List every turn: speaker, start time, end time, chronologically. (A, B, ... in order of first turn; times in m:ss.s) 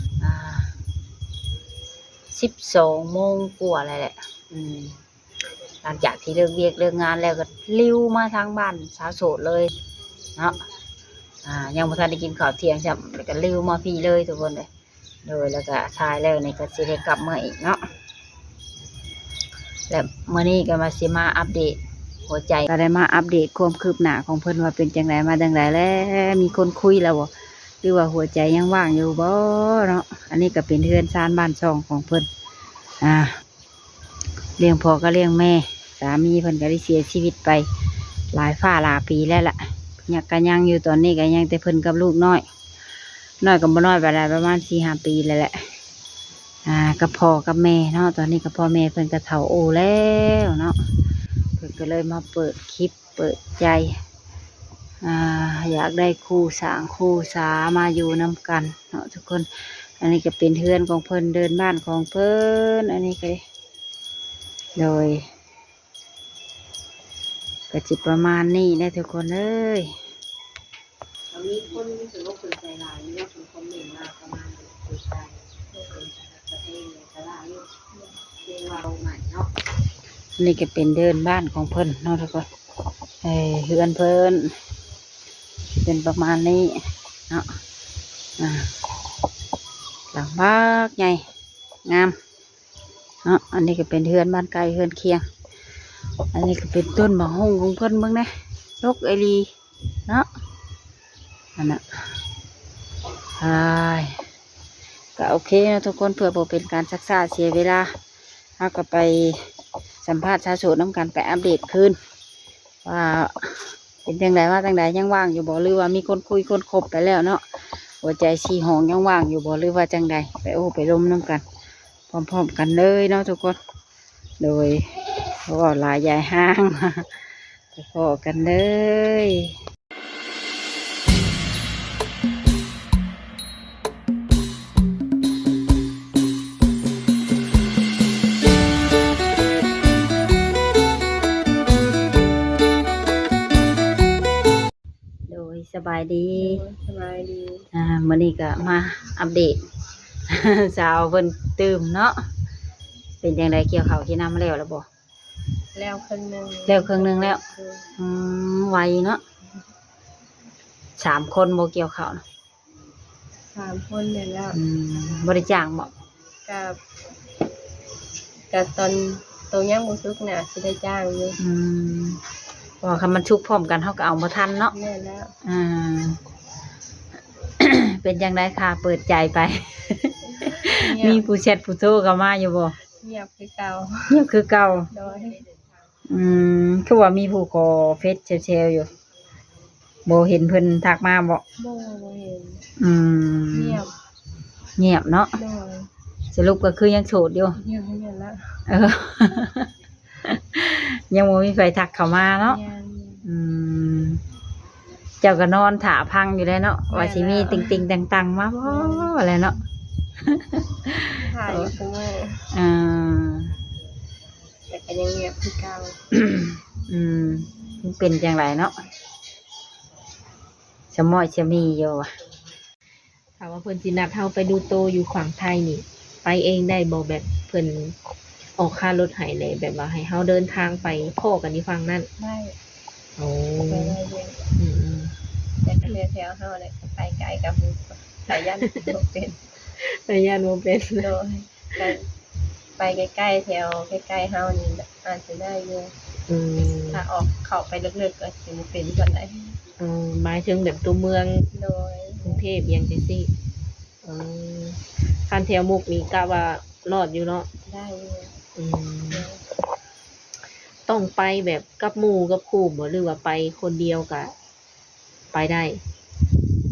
0:00.2-0:00.7 A
0:02.3-0:05.0 A
0:05.8-0:09.7 A
0:10.4-0:10.6 A
0:11.4-0:14.7 A
0:15.2-0:17.8 A
0:19.9-0:27.3 A
0:27.8-0:32.3 A
0:33.0-0:33.3 A
0:34.6-0:37.7 A
0:38.3-0:42.4 A
0:43.4-0:45.7 A
0:46.6-0:50.8 A
0:51.6-0:54.0 A
0:55.0-0:59.5 A
1:00.0-1:03.4 A
1:04.8-1:05.3 A
1:07.7-1:10.0 A
1:11.3-1:17.7 A
1:18.3-1:19.5 A
1:20.4-1:22.5 A
1:23.2-1:24.6 A
1:25.8-1:27.6 A
1:28.4-1:28.7 A
1:30.1-1:31.3 A
1:31.8-1:32.2 A
1:33.2-1:35.3 A
1:36.3-1:39.5 A
1:41.6-1:42.1 A
1:43.4-1:44.2 A
1:45.2-1:47.9 A
1:48.6-1:52.0 A
1:52.8-1:57.4 A
1:58.0-2:01.4 A
2:02.1-2:03.6 A
2:04.4-2:07.2 A
2:07.7-2:09.6 A
2:25.3-2:26.6 A
2:26.4-2:27.7 B
2:27.7-2:29.6 A
2:30.3-2:32.2 A
2:33.2-2:34.9 A
2:35.8-2:37.9 B
2:36.7-2:37.4 A
2:38.0-2:39.2 A
2:41.0-2:42.2 A
2:43.5-2:44.6 B
2:44.5-2:45.9 A
2:46.5-2:46.8 B
2:48.5-2:51.4 B
2:51.4-2:52.2 A
2:52.8-2:54.7 A
2:54.7-2:55.3 B
2:55.4-2:56.2 A
2:57.6-3:02.8 A
3:00.4-3:01.3 B
3:03.0-3:04.2 B
3:04.1-3:04.9 A
3:04.9-3:05.4 B
3:06.1-3:08.9 A
3:10.1-3:11.4 A
3:11.6-3:12.6 B
3:12.8-3:13.8 A
3:13.5-3:13.9 B
3:14.8-3:15.4 A
3:15.3-3:15.9 B
3:16.3-3:17.6 A
3:17.6-3:18.6 B
3:18.7-3:19.7 A
3:20.2-3:22.6 A
3:22.4-3:23.2 B
3:23.2-3:24.2 A
3:25.2-3:29.6 A
3:26.9-3:27.8 B
3:28.6-3:29.1 B
3:30.2-3:31.7 A
3:31.2-3:32.5 B
3:32.5-3:33.5 A
3:34.7-3:36.0 B
3:36.1-3:38.8 A
3:40.9-3:42.1 A
3:43.4-3:48.0 C
3:48.6-3:52.1 C
3:52.2-3:52.6 B
3:53.2-3:54.0 C
3:53.7-3:54.4 B
3:54.6-3:55.1 C
3:55.6-3:59.4 B
3:58.3-3:58.9 C
3:59.8-4:01.1 C
4:01.0-4:02.1 B
4:02.8-4:05.9 B
4:06.3-4:07.0 C
4:06.9-4:09.6 B
4:09.8-4:11.5 C
4:11.5-4:12.4 B
4:12.2-4:13.3 C
4:14.0-4:17.5 C
4:17.7-4:18.4 B
4:18.6-4:19.3 C
4:19.1-4:19.4 B
4:20.9-4:24.3 C
4:25.3-4:25.8 C